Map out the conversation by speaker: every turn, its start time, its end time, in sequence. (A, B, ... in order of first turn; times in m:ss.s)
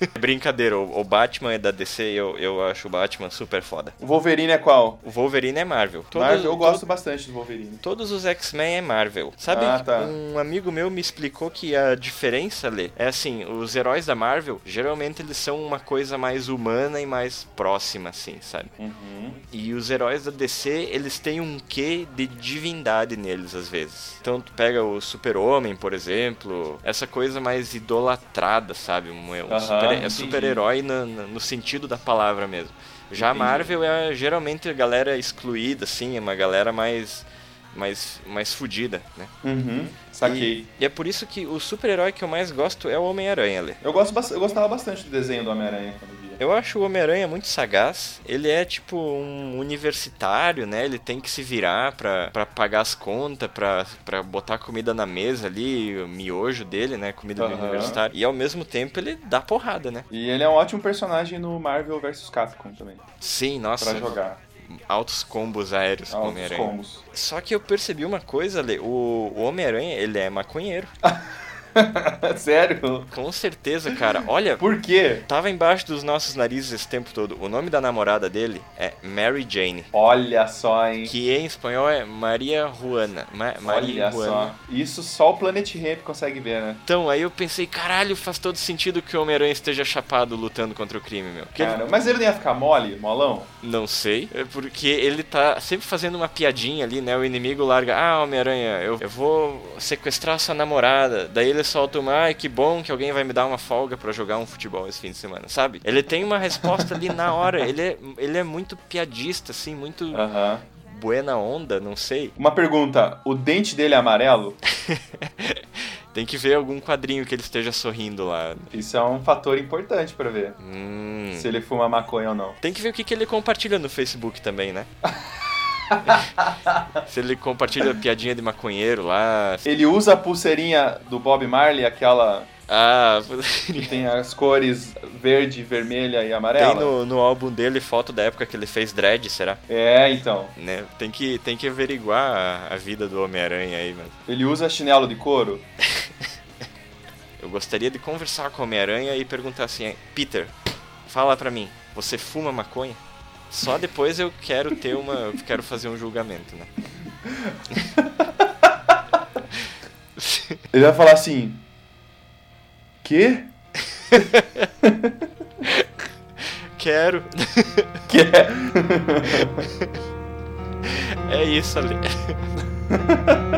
0:00.1-0:04.0 A
0:04.0-0:05.0 B
0:05.0-0:06.8 A
0:06.1-0:07.8 B
0:07.8-0:18.7 A
0:09.5-0:10.2 B
0:18.8-0:19.4 B
0:19.5-0:39.3 A
0:29.5-0:30.6 B
0:33.1-0:33.7 B
0:39.4-0:40.6 B
0:40.2-0:43.8 A
0:43.8-0:46.4 B
0:46.4-1:00.1 A
0:57.4-0:58.0 B
1:00.1-1:03.0 B
1:03.2-1:04.2 A
1:03.8-1:04.4 B
1:04.7-1:10.9 A
1:06.1-1:07.0 B
1:11.8-1:13.1 B
1:13.1-1:14.6 A
1:14.6-1:15.2 B
1:15.2-1:19.9 A
1:19.9-1:21.1 B
1:21.0-1:24.5 A
1:23.6-1:26.8 B
1:26.8-1:31.8 A
1:31.6-1:33.5 B
1:33.6-1:50.2 A
1:46.8-1:47.1 B
1:50.1-1:50.6 B
1:50.8-1:52.3 A
1:52.4-1:54.6 B
1:54.8-1:55.6 A
1:56.1-1:58.7 A
1:58.7-2:00.6 B
2:00.6-2:01.5 A
2:01.3-2:02.6 B
2:02.6-2:04.9 A
2:05.9-2:06.7 B
2:07.0-2:09.6 A
2:09.6-2:12.5 B
2:12.7-2:14.0 A
2:13.8-2:16.9 B
2:16.6-2:19.6 A
2:19.7-2:20.5 B
2:20.6-2:24.2 A
2:24.3-2:25.6 B
2:27.4-2:30.5 A
2:31.1-2:36.7 A
2:37.7-2:38.0 B
2:40.2-2:40.6 A
2:40.7-2:41.6 B
2:43.0-2:43.5 B
2:44.0-2:44.7 A
2:44.8-2:45.1 B
2:46.8-2:48.0 A
2:48.1-2:49.6 B
2:49.3-2:49.9 A
2:50.8-2:52.4 A
2:52.9-2:53.4 B